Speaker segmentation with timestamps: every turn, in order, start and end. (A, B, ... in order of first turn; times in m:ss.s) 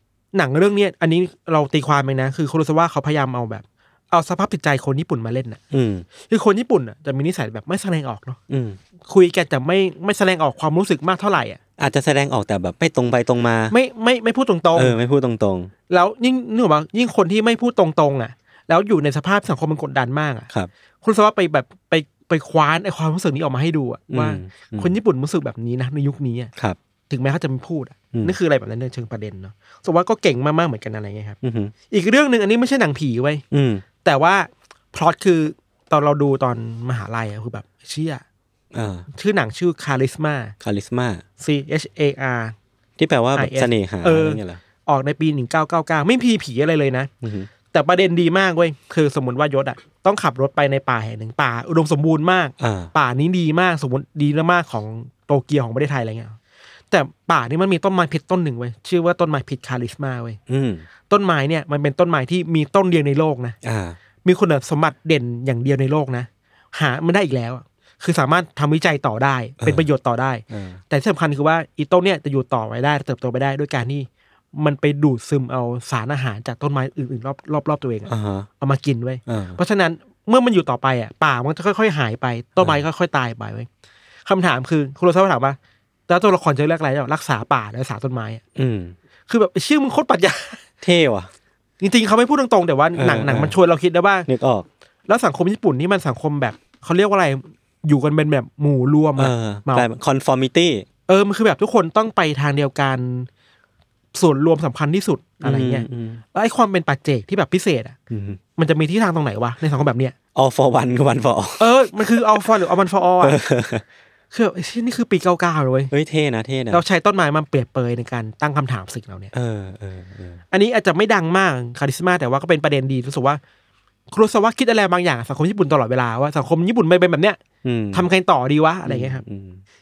0:00.3-0:05.6 A
0:05.7-0:06.0 B
0:06.2-0:08.4 A
0:08.5-0:08.8 B
0:09.1-0:11.6 A
0:11.8-0:13.7 B
0:13.7-0:15.0 A
0:14.7-0:15.7 B
0:15.9-0:20.5 A
0:21.0-0:26.5 A
0:24.1-0:25.0 B
0:27.1-0:31.4 A
0:31.4-0:31.7 B
0:31.9-0:33.4 A
0:33.5-0:33.8 B
0:34.0-0:38.2 A
0:38.7-0:39.1 B
0:39.1-0:40.5 A
0:40.6-0:41.2 B
0:41.4-0:42.5 A
0:43.0-0:44.6 B
0:43.4-0:47.1 A
0:47.2-0:47.5 B
0:47.7-0:56.4 A
0:52.6-0:52.9 B
0:56.9-1:00.4 A
1:00.5-1:00.8 B
1:01.1-1:03.6 A
1:03.6-1:04.0 B
1:04.2-1:23.7 A
1:09.6-1:09.8 B
1:10.5-1:10.8 B
1:18.1-1:18.5 B
1:19.3-1:19.6 B
1:24.2-1:25.6 A
1:26.1-1:28.4 A
1:28.6-1:28.9 B
1:29.3-1:30.6 A
1:30.8-1:31.3 B
1:31.8-1:34.3 A
1:32.9-1:33.5 B
1:34.3-1:34.7 B
1:35.1-1:39.9 A
1:39.2-1:40.8 B
1:41.1-1:43.3 A
1:44.1-1:48.0 A
1:45.4-1:46.2 B
1:48.1-1:48.4 B
1:48.6-1:50.1 A
1:50.3-1:52.4 B
1:51.6-1:53.4 A
1:53.2-1:53.8 B
1:54.3-1:55.9 A
1:55.9-1:56.8 B
1:56.7-1:59.3 A
1:59.3-2:00.4 B
2:00.5-2:03.4 A
2:04.1-2:07.4 A
2:07.6-2:08.1 B
2:07.9-2:09.2 A
2:08.8-2:09.6 B